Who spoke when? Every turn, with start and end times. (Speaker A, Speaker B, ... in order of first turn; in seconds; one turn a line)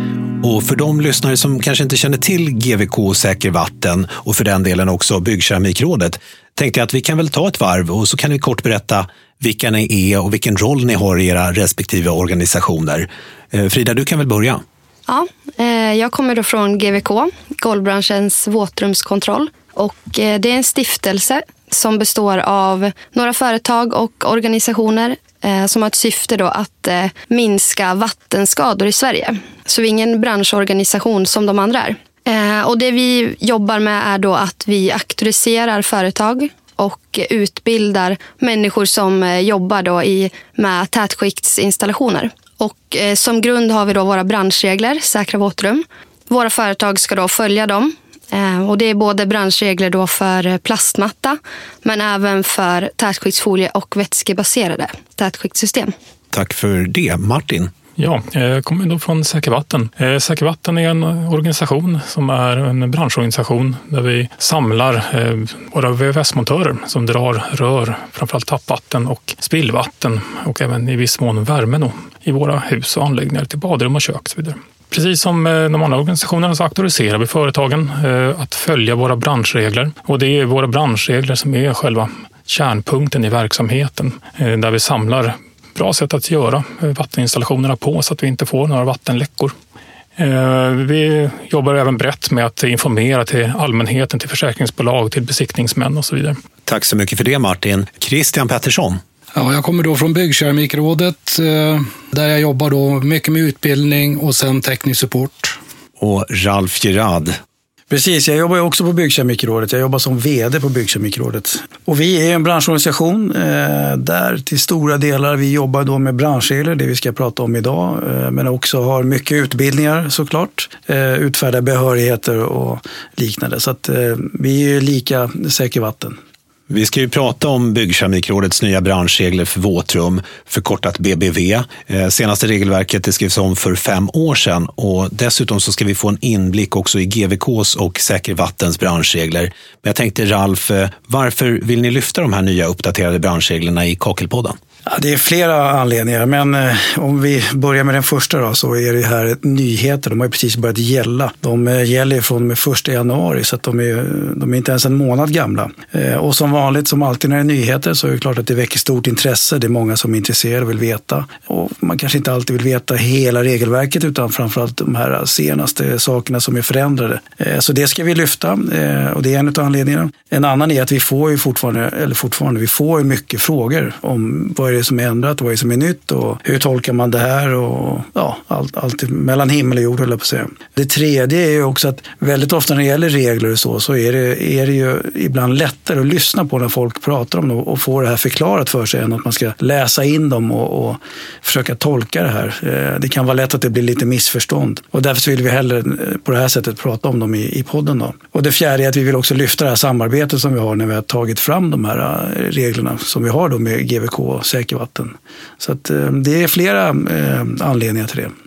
Speaker A: 0.4-14.6
Speaker B: 15.1-55.9
Speaker A: 56.3-57.7
Speaker C: 58.0-89.5
Speaker C: 90.2-96.4
Speaker A: 96.7-99.0
Speaker D: 99.3-105.6
Speaker A: 106.0-107.4
Speaker E: 107.9-126.2
Speaker A: 126.7-144.6
Speaker E: 144.9-208.3